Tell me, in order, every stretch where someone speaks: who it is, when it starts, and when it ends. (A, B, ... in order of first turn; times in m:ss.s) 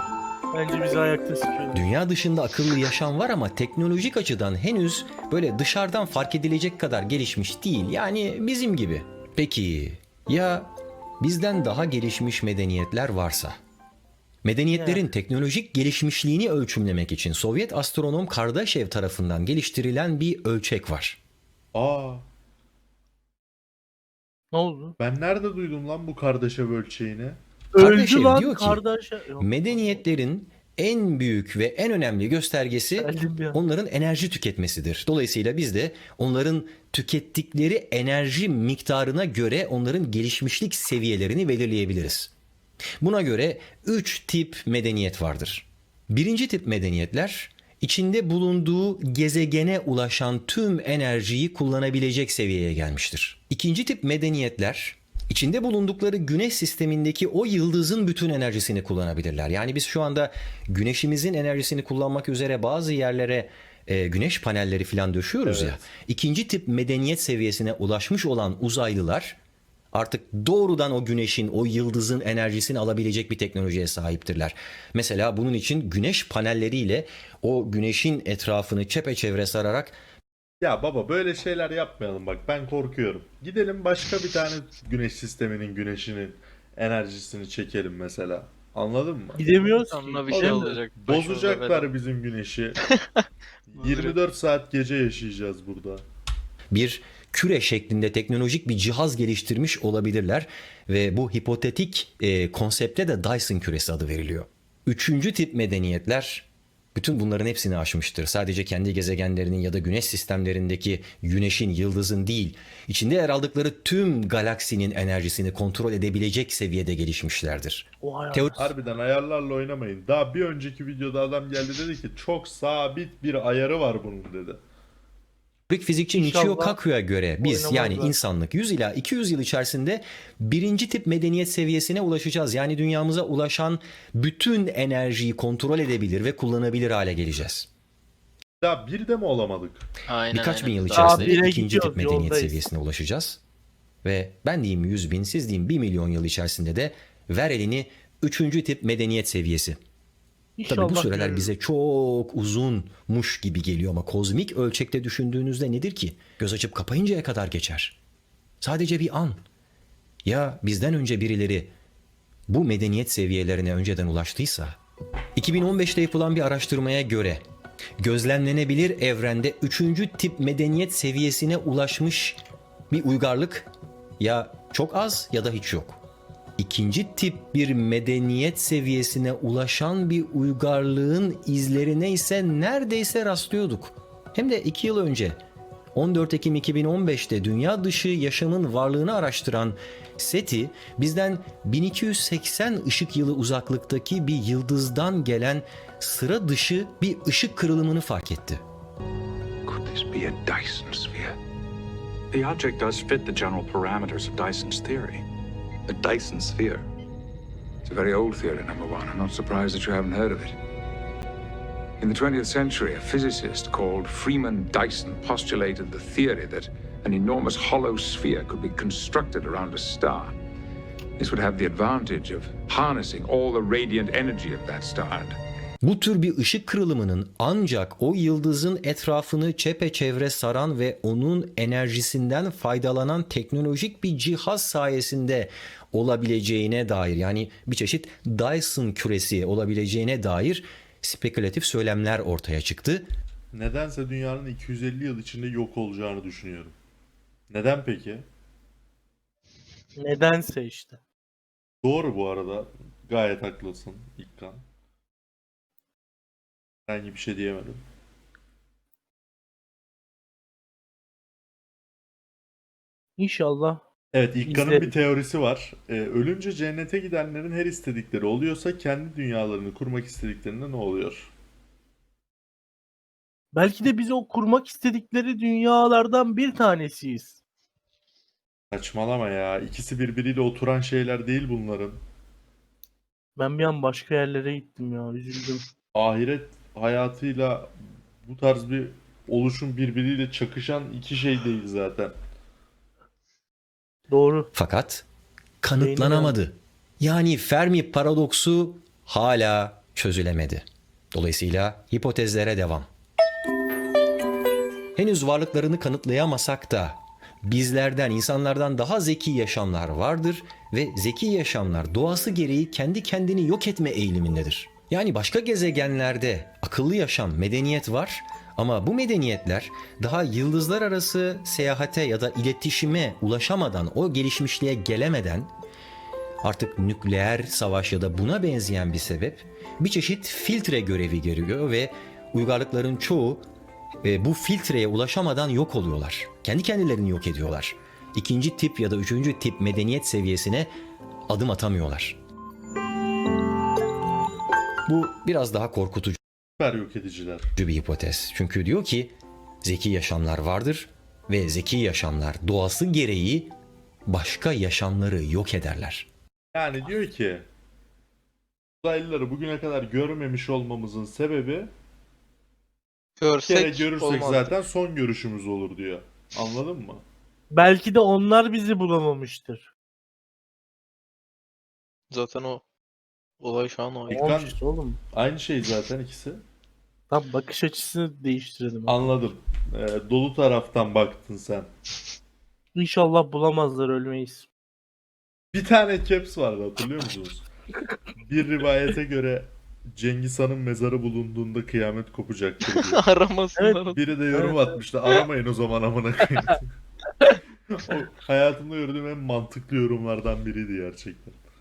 0:00.5-0:01.8 A
0:01.7-0:13.6 B
0:14.4-0:21.2 B
0:14.7-0:15.0 A
0:21.7-0:22.2 C
0:24.5-0:25.0 A
0:25.0-0:27.4 C
0:27.7-0:30.0 A
0:27.8-0:28.8 B
0:29.4-0:42.3 B
0:32.9-0:33.6 A
0:43.0-1:09.4 B
1:05.4-1:05.8 C
1:09.9-1:20.0 B
1:20.6-1:29.5 C
1:29.3-1:30.8 A
1:29.7-1:31.9 D
1:30.3-1:32.8 C
1:32.8-1:34.2 D
1:33.7-1:36.0 C
1:36.7-1:58.6 B
1:58.0-1:58.7 A
1:58.6-2:04.6 C
2:05.7-2:17.7 B
2:06.1-2:06.8 A
2:07.4-2:08.1 A
2:18.6-2:19.9 C
2:20.1-2:21.4 D
2:20.3-2:23.4 B
2:21.0-2:22.6 A
2:24.0-2:29.8 B
2:30.6-2:31.5 A
2:30.7-2:38.0 B
2:38.6-2:39.4 B
2:40.2-2:41.7 B
2:42.5-2:44.8 B
2:45.4-2:47.4 B
2:48.0-2:52.4 B
2:52.9-2:56.0 B
2:56.6-3:05.4 B
3:05.9-3:18.6 B
3:19.6-3:21.4 E
3:22.3-3:25.2 E
3:25.9-3:26.8 E
3:27.8-3:30.6 E
3:32.0-3:40.3 E
3:41.2-3:45.4 E
3:45.8-4:03.1 B
4:03.5-4:06.7 C
4:07.5-4:08.2 C
4:10.0-4:11.0 A
4:11.8-4:14.6 C
4:16.9-4:17.8 C
4:23.2-4:23.8 A
4:24.1-4:31.3 C
4:24.4-4:24.9 A
4:33.5-4:37.4 A
4:38.7-4:42.0 C
4:43.4-4:45.6 A
4:45.9-4:52.1 C
4:54.1-4:54.5 A
4:54.5-4:55.0 B
4:55.6-5:02.9 B
4:55.8-4:56.4 A
5:05.0-5:25.5 B
5:26.4-5:33.4 B
5:34.0-5:40.7 B
5:41.3-5:42.2 B
5:44.8-5:46.2 B
5:46.6-5:47.5 C
5:47.6-5:53.5 B
5:54.1-5:56.1 B
5:56.5-5:57.5 C
5:58.8-6:01.7 C
6:03.2-6:04.5 D
6:03.4-6:07.0 C
6:07.5-6:09.7 A
6:12.1-6:12.6 D
6:13.4-6:14.3 D
6:14.1-6:14.6 C
6:14.1-6:15.0 A
6:15.1-6:16.4 C
6:17.1-6:19.1 A
6:18.9-6:21.7 C
6:22.7-6:24.5 A
6:25.5-6:27.4 C
6:28.2-6:33.0 C
6:32.7-6:34.0 D
6:33.6-6:34.8 A
6:33.9-6:36.7 C
6:37.7-6:41.4 C